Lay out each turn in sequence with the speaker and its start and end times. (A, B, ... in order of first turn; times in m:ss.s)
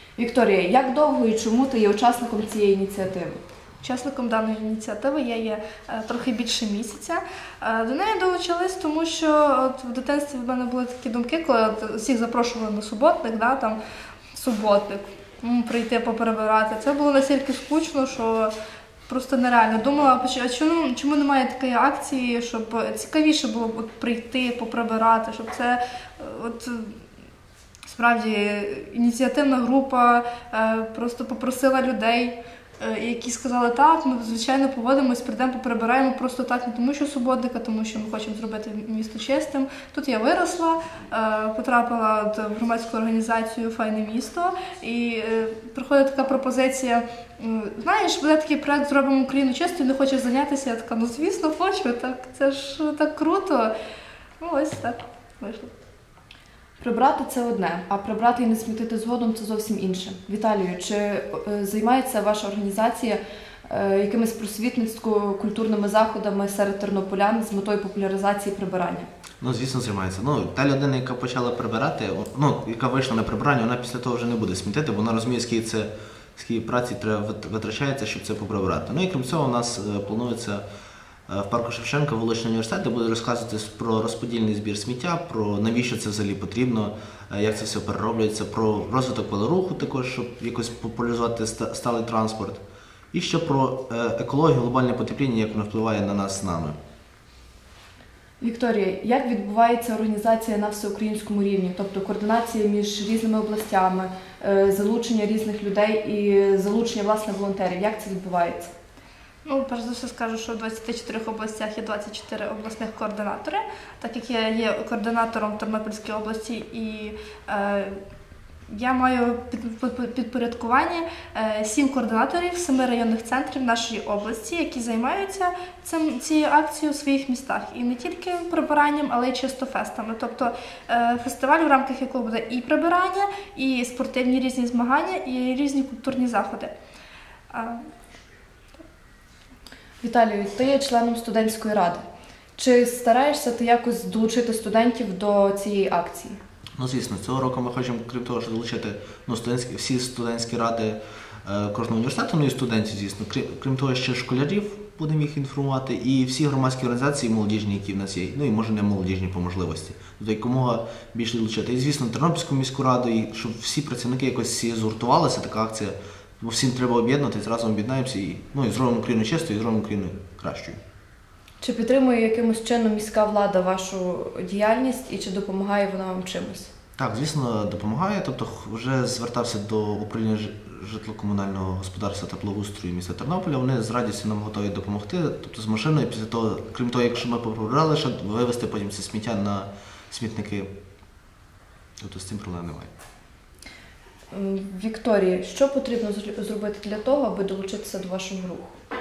0:00.2-0:03.4 A
0:03.8-0:13.8 B
0:14.3-0:18.5 B
0:19.1-0:27.0 B
0:27.9-0:53.7 B
0:54.4-0:55.7 B
0:56.8-1:09.1 A
1:09.4-1:20.6 C
1:21.3-1:32.6 C
1:33.1-1:36.8 C
1:38.4-1:48.7 A
1:49.4-1:58.0 B
1:58.7-2:16.7 B
2:17.5-2:17.9 B
2:20.0-2:22.0 A
2:22.6-2:26.4 A
2:26.8-2:50.8 C
2:51.6-2:56.7 A
2:57.0-3:10.7 C
3:12.0-3:12.9 C
3:14.3-3:18.8 A